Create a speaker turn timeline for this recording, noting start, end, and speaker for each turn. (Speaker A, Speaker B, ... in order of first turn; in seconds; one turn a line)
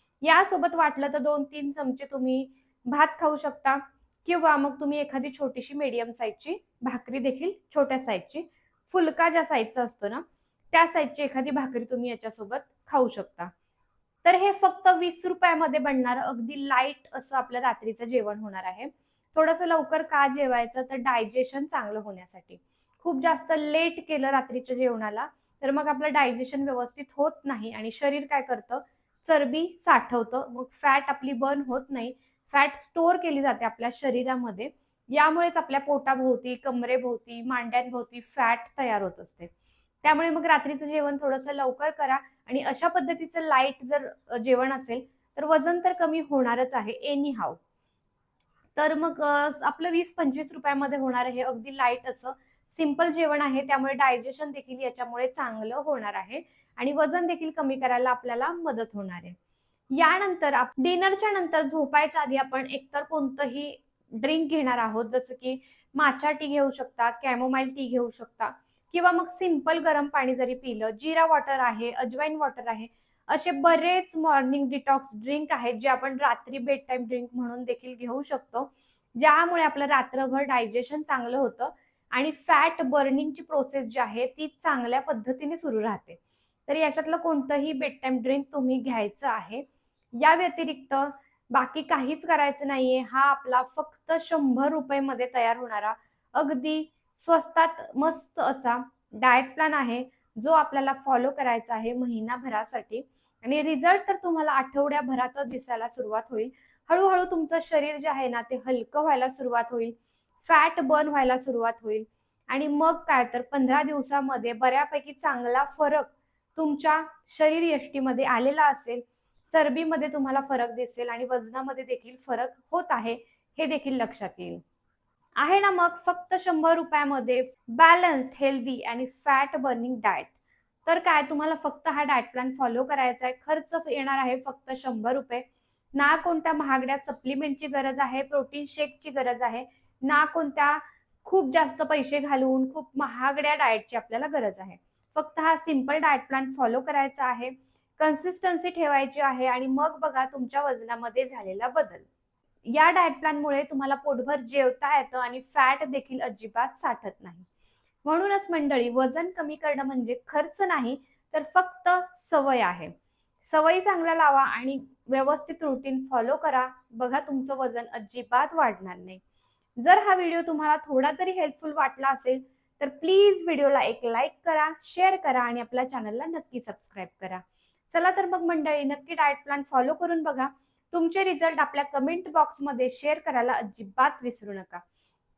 Speaker A: 0.2-13.5
Speaker A: 14.2-39.5
Speaker A: 40.0-47.6
Speaker A: 48.7-59.4
Speaker A: 59.9-89.6
Speaker A: 90.2-124.6
Speaker A: 125.4-130.3
Speaker A: 130.8-152.1
Speaker A: 152.7-157.4
Speaker A: 158.0-169.2
Speaker A: 169.8-184.8